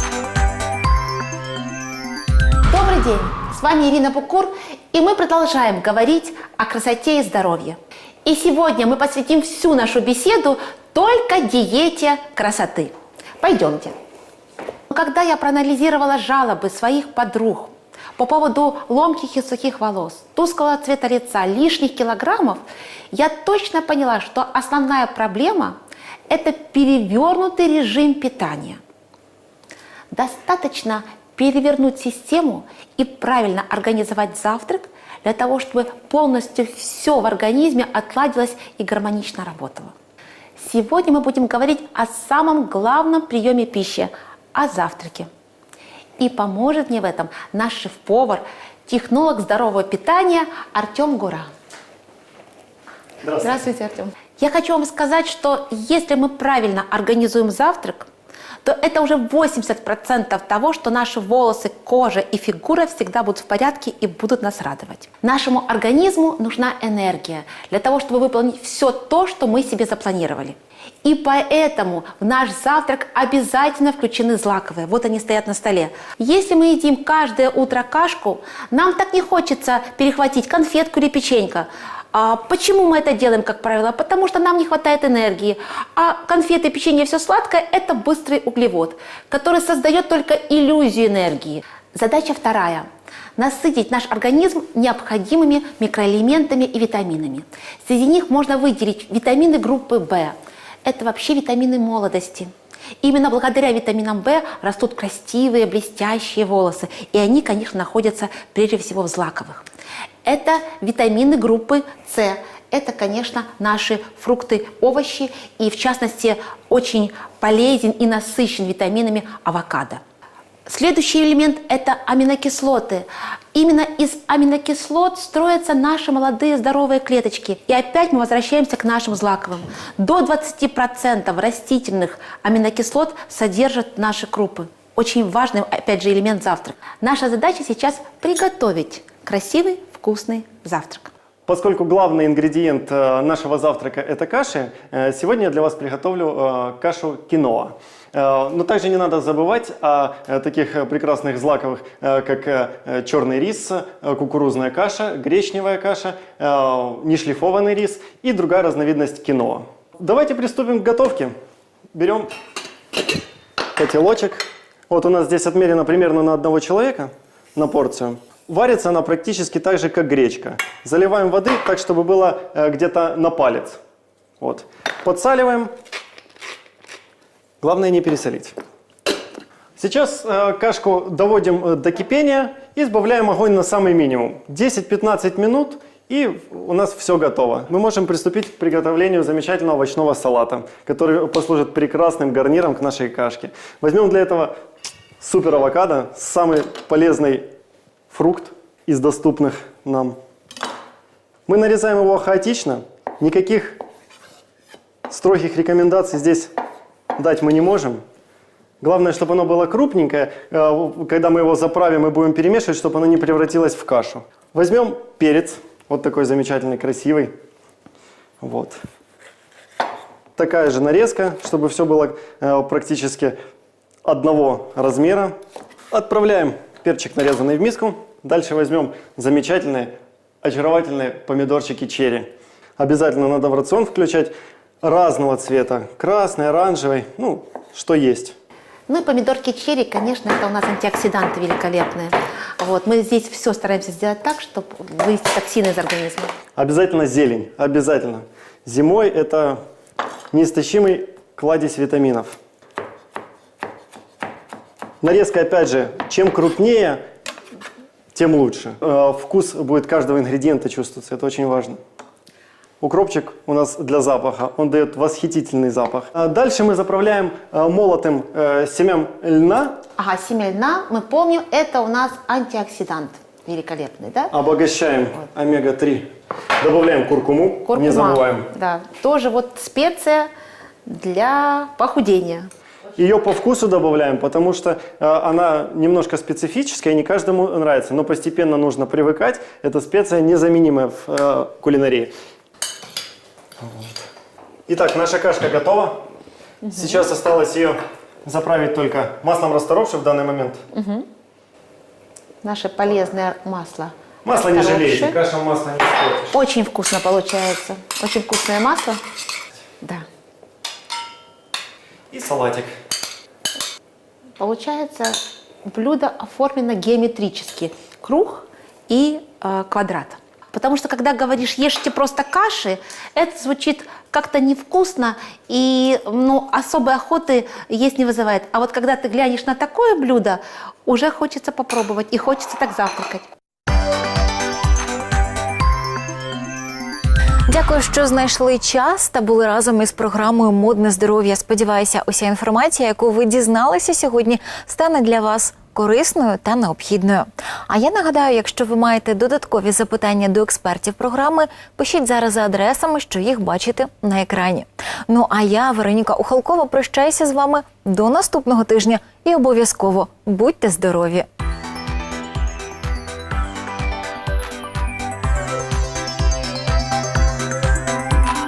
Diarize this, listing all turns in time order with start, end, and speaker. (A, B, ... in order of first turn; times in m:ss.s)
0:02.7-0:13.9 A
0:14.9-0:25.8 A
0:26.3-0:28.8 A
0:30.1-0:39.9 A
0:40.6-0:45.3 A
0:46.2-0:51.5 A
0:53.2-0:53.6 B
0:53.4-0:58.1 A
0:58.6-1:49.6 A
1:50.2-2:00.0 A
2:00.7-2:21.1 A
2:21.5-2:41.3 B
2:41.9-2:42.3 B
2:43.7-2:53.8 B
2:54.4-2:55.7 B
2:57.6-2:58.6 B
2:59.8-3:14.5 B
3:15.2-3:17.5 B
3:18.1-3:20.2 B
3:21.5-3:23.8 B
3:25.1-3:26.5 B
3:27.1-3:28.0 B
3:28.8-3:37.3 B
3:38.4-3:38.8 B
3:40.4-3:43.4 B
3:44.0-3:45.4 B
3:45.9-3:58.4 B
3:58.9-4:06.3 A
4:06.6-4:09.6 B
4:10.3-4:12.4 B
4:15.0-4:17.0 B
4:18.1-4:21.8 B
4:22.8-4:29.8 B
4:30.0-4:34.3 A
4:34.3-4:38.5 B
4:37.6-4:40.3 A
4:40.8-4:42.5 A
4:43.0-4:52.1 B
4:53.6-4:54.0 B
4:54.7-4:56.0 B
4:56.7-4:57.0 A
4:56.7-5:00.6 B
5:00.7-5:01.1 A
5:02.4-5:05.2 A
5:04.2-5:06.3 B
5:06.3-5:09.0 A
5:12.1-5:12.7 B
5:14.4-5:33.3 A
5:37.5-6:01.2 C